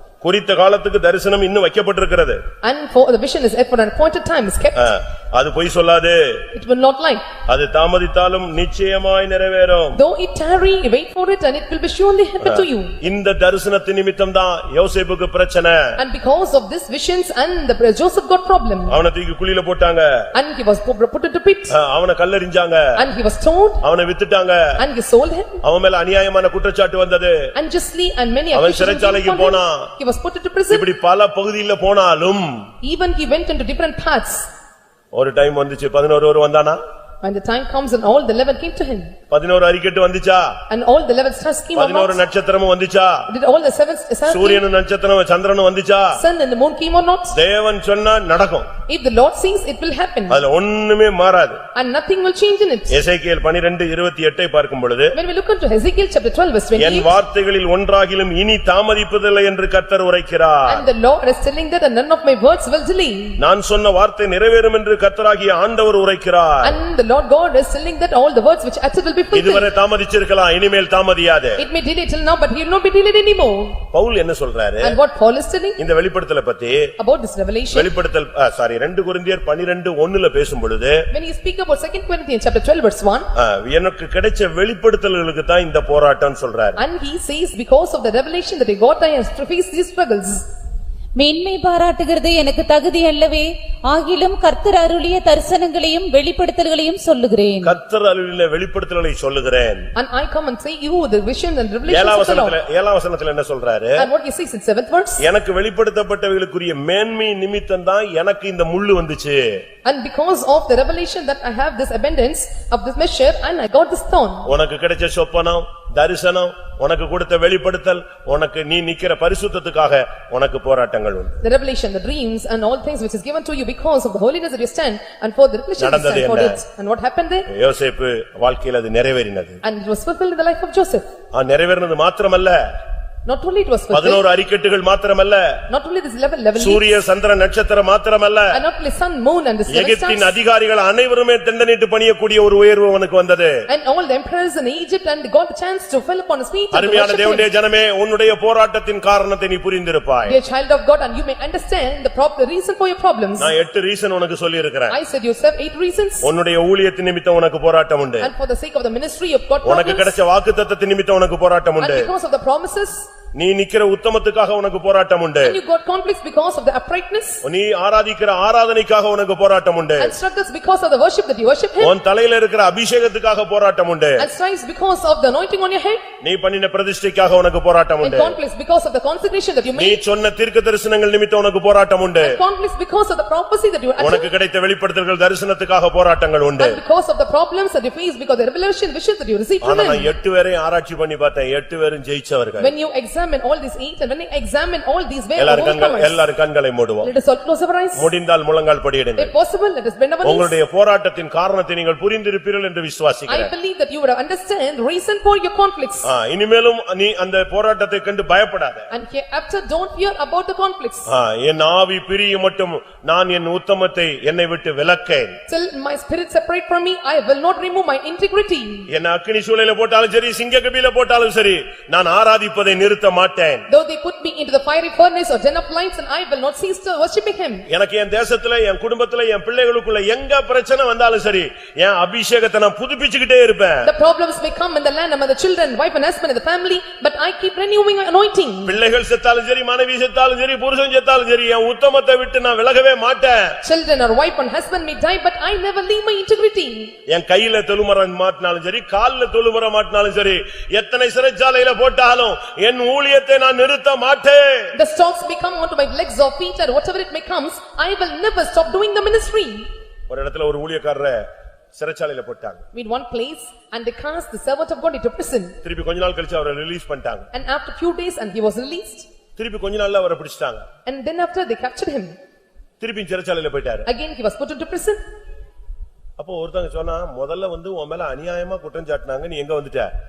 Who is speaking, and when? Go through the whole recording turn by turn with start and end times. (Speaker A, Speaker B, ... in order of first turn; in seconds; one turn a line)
Speaker A: 0.2-2.4
Speaker B: 2.6-4.9
Speaker A: 4.8-6.5
Speaker B: 6.5-7.4
Speaker A: 7.5-10.0
Speaker B: 9.9-13.0
Speaker A: 12.4-16.0
Speaker B: 16.0-19.0
Speaker A: 18.9-20.3
Speaker B: 20.3-21.8
Speaker A: 21.7-23.0
Speaker B: 23.0-23.9
Speaker A: 23.8-24.8
Speaker B: 24.8-25.6
Speaker A: 25.6-27.5
Speaker B: 27.6-30.9
Speaker A: 28.5-29.9
Speaker A: 30.7-32.7
Speaker B: 32.8-34.5
Speaker A: 35.1-36.8
Speaker B: 37.2-39.2
Speaker A: 39.3-40.6
Speaker B: 40.7-42.2
Speaker A: 41.8-43.3
Speaker B: 43.3-44.6
Speaker A: 44.3-46.2
Speaker B: 46.1-47.4
Speaker A: 47.3-48.7
Speaker B: 48.9-50.4
Speaker A: 50.3-51.6
Speaker B: 51.8-53.0
Speaker A: 52.9-55.2
Speaker B: 55.1-57.2
Speaker A: 56.8-60.9
Speaker B: 60.7-63.4
Speaker A: 63.4-66.8
Speaker B: 66.6-69.7
Speaker A: 69.3-71.6
Speaker B: 71.6-73.8
Speaker A: 73.9-75.0
Speaker B: 74.8-75.8
Speaker A: 75.8-76.9
Speaker B: 77.0-77.9
Speaker A: 77.7-81.1
Speaker B: 81.1-83.3
Speaker A: 83.3-86.8
Speaker B: 86.8-90.5
Speaker C: 91.2-97.8
Speaker A: 97.6-99.9
Speaker B: 100.0-102.6
Speaker A: 101.9-104.1
Speaker B: 104.0-105.2
Speaker A: 105.2-109.6
Speaker B: 109.8-114.5
Speaker A: 114.5-121.4
Speaker B: 121.4-127.5
Speaker A: 125.8-126.6
Speaker A: 127.5-129.6
Speaker B: 129.6-131.0
Speaker A: 131.3-132.6
Speaker B: 133.3-134.3
Speaker A: 133.9-135.6
Speaker B: 135.7-136.9
Speaker A: 136.6-138.6
Speaker B: 138.5-140.3
Speaker A: 139.7-143.6
Speaker B: 143.7-147.5
Speaker A: 146.7-150.4
Speaker B: 150.3-153.5
Speaker A: 153.4-155.0
Speaker B: 154.9-156.3
Speaker A: 156.2-158.3
Speaker B: 158.2-160.2
Speaker A: 159.6-162.1
Speaker B: 161.8-163.1
Speaker A: 163.3-165.6
Speaker B: 165.4-167.4
Speaker A: 167.4-170.2
Speaker B: 170.0-171.9
Speaker A: 171.8-174.3
Speaker B: 174.2-176.0
Speaker A: 176.2-178.4
Speaker B: 178.0-180.0
Speaker A: 179.8-182.4
Speaker B: 182.2-184.3
Speaker A: 184.0-186.8
Speaker B: 186.6-190.1
Speaker A: 189.6-192.7
Speaker B: 192.6-196.2
Speaker A: 195.4-197.1
Speaker B: 197.0-198.1
Speaker A: 198.0-199.3
Speaker B: 199.2-200.6
Speaker A: 200.2-203.5
Speaker B: 203.3-206.1
Speaker A: 206.0-208.9
Speaker B: 208.9-211.1
Speaker A: 211.1-215.4
Speaker B: 215.5-218.9
Speaker A: 218.9-223.7
Speaker B: 223.7-227.7
Speaker A: 227.7-233.9
Speaker B: 233.8-238.8
Speaker A: 238.7-243.6
Speaker B: 243.6-246.9
Speaker A: 247.1-254.8
Speaker B: 254.8-259.7
Speaker A: 260.1-262.6
Speaker B: 262.7-265.6
Speaker A: 265.6-267.3
Speaker B: 267.3-269.1
Speaker A: 269.4-270.6
Speaker B: 270.9-272.1
Speaker A: 272.8-273.9
Speaker B: 273.9-275.0
Speaker A: 276.2-279.9